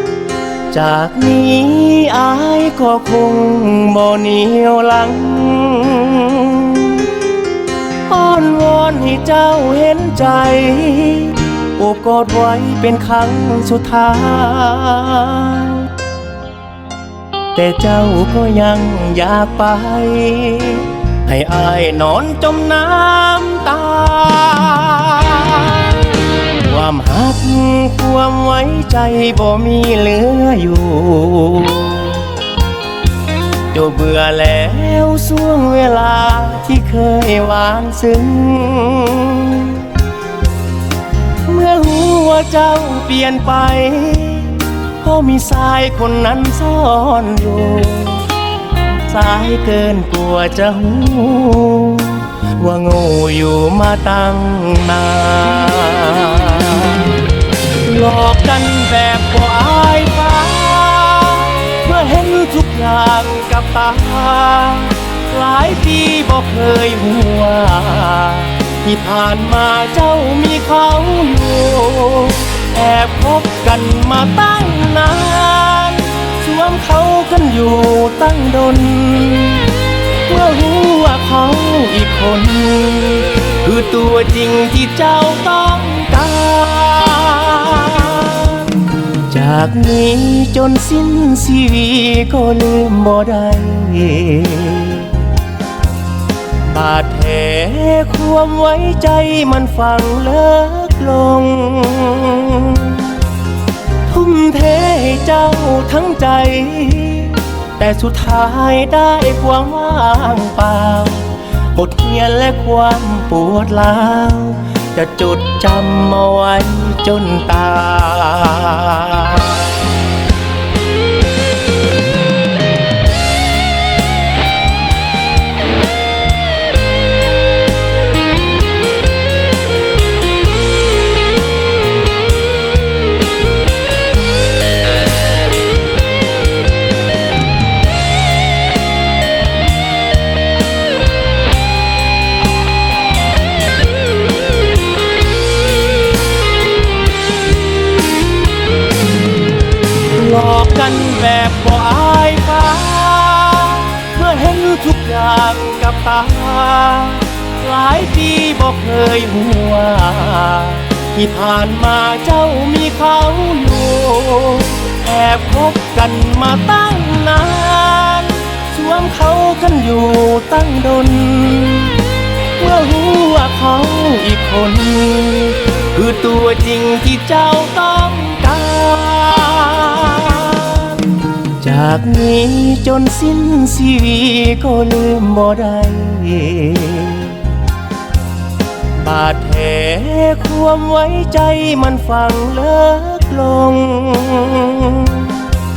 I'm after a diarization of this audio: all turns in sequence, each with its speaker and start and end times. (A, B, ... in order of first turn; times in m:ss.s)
0:00.7-0:07.1 A
0:08.1-0:15.9 A
0:17.5-0:32.3 A
0:33.7-0:40.0 A
0:41.4-0:48.3 A
0:49.0-0:57.2 A
0:57.8-1:35.3 A
1:36.6-1:43.2 A
1:44.0-1:59.8 A
2:30.1-3:07.5 A
3:09.0-3:15.5 A